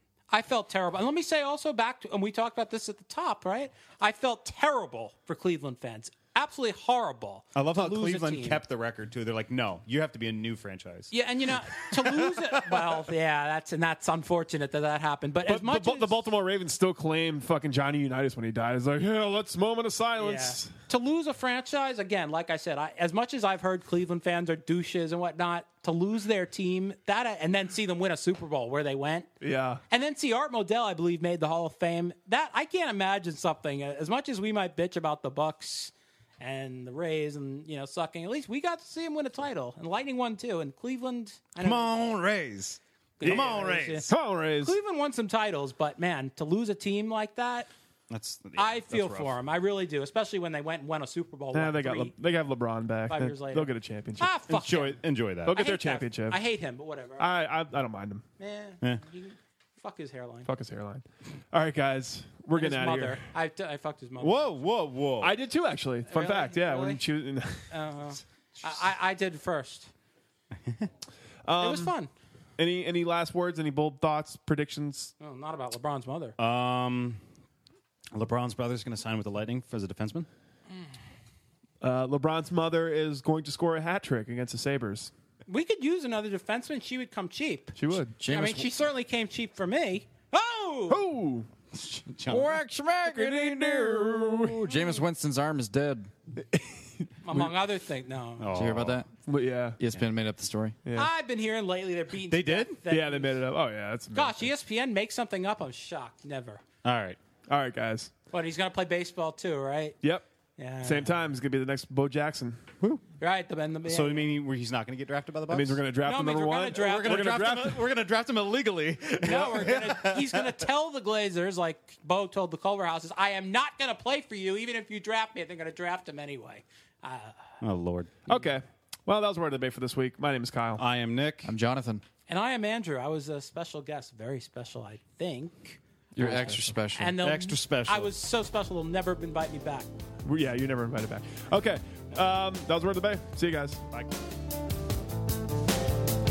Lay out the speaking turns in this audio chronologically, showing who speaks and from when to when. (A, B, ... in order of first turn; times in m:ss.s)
0:00.3-0:08.6 A
0:07.5-0:13.0 B
0:11.1-0:16.1 A
0:15.5-0:20.7 C
0:20.2-0:29.3 A
0:29.4-0:29.8 C
0:29.9-0:41.9 A
0:41.6-0:44.1 B
0:43.2-0:47.7 A
0:43.2-0:44.8 C
0:48.1-0:49.4 B
0:48.6-0:52.1 A
0:51.5-0:54.3 C
0:53.1-0:55.0 A
0:54.5-0:55.6 B
0:55.4-0:56.4 C
0:55.5-0:57.3 A
0:57.2-0:58.2 C
0:58.4-1:00.5 A
1:00.4-1:03.2 C
1:02.5-1:04.5 A
1:04.2-1:05.4 B
1:05.2-1:07.8 C
1:06.1-1:07.0 A
1:07.7-1:09.9 A
1:10.6-1:10.9 B
1:11.4-1:11.9 C
1:11.6-1:12.1 A
1:12.6-1:15.1 C
1:15.2-1:16.4 A
1:16.4-1:17.2 B
1:18.1-1:20.3 B
1:21.8-1:25.1 C
1:25.5-1:31.0 A
1:27.8-1:28.2 C
1:28.2-1:28.7 D
1:30.9-1:31.5 C
1:31.7-1:32.6 B
1:32.3-1:36.1 D
1:33.0-1:34.7 C
1:36.4-1:37.5 C
1:37.2-1:38.5 A
1:38.4-1:39.0 B
1:38.5-1:39.1 D
1:39.3-1:39.8 C
1:39.8-1:40.8 D
1:40.8-1:41.1 C
1:40.9-1:43.4 A
1:42.3-1:42.8 B
1:42.9-1:44.5 C
1:44.1-1:46.6 A
1:46.8-1:47.2 B
1:47.5-1:48.1 C
1:48.3-1:50.0 A
1:50.6-1:51.1 A
1:50.8-1:52.6 C
1:53.2-1:54.3 A
1:53.9-1:55.8 B
1:55.5-1:57.8 C
1:56.0-1:57.2 A
1:56.7-2:00.5 B
1:59.2-2:07.5 A
2:07.6-2:08.2 B
2:08.3-2:10.8 C
2:10.8-2:11.5 B
2:11.4-2:12.0 D
2:12.3-2:15.8 A
2:16.1-2:17.2 D
2:16.2-2:16.7 C
2:16.9-2:19.9 A
2:17.2-2:18.1 B
2:20.2-2:23.8 C